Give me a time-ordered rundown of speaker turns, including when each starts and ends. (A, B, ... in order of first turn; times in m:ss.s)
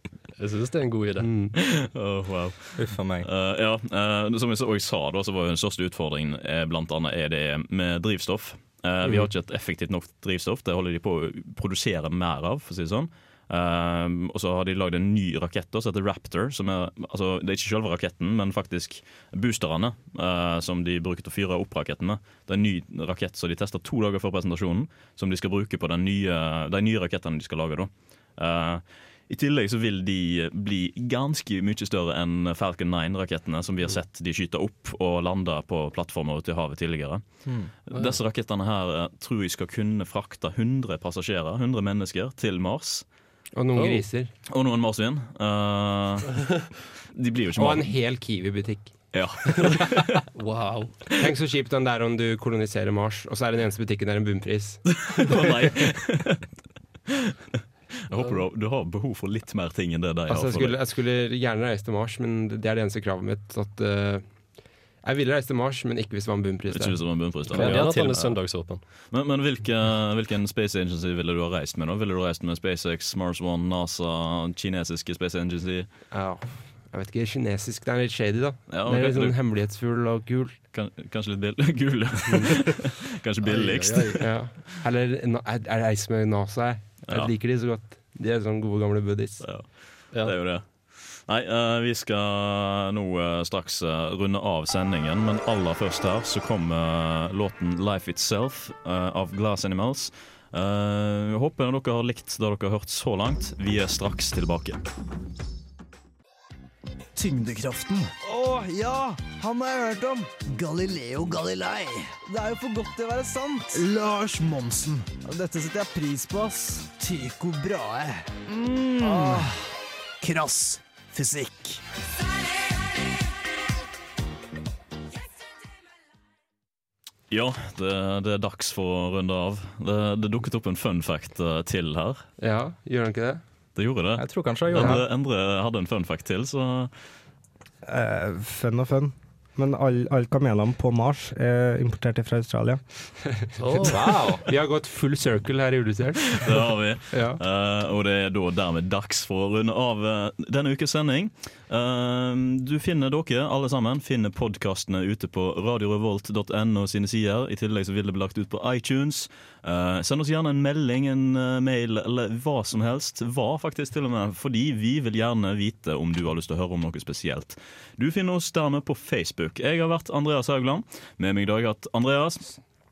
0:00.4-0:01.3 A
0:01.2-0:01.5 B
0:01.6-0:37.2 C
0:02.7-0:03.3 D
0:37.4-0:37.7 D
0:37.8-0:43.0 C
0:43.5-0:44.3 B
0:43.8-0:44.0 A
0:44.5-0:46.5 C
0:47.1-0:47.9 C
0:47.6-0:49.0 B
0:49.1-0:50.2 C
0:50.3-0:51.0 A
0:51.2-0:55.1 B
0:55.0-0:56.4 C
0:58.1-1:00.8 C
1:00.3-1:04.3 B
1:05.0-1:07.7 B
1:06.7-1:08.4 C
1:07.5-1:08.8 A
1:09.1-1:15.9 C
1:16.1-1:20.6 B
1:18.7-1:19.4 C
1:20.7-1:24.3 C
1:23.4-1:24.2 A
1:24.2-1:29.4 B
1:29.4-1:44.8 C
1:47.1-1:59.6 E
2:00.2-2:01.8 E
2:07.3-2:12.2 C
2:12.4-2:13.4 B
2:13.8-2:16.9 C
2:14.2-2:15.0 D
2:17.9-2:22.8 F
2:23.4-2:26.5 B
2:23.6-2:23.9 A
2:23.8-2:24.4 D
2:26.4-2:52.5 C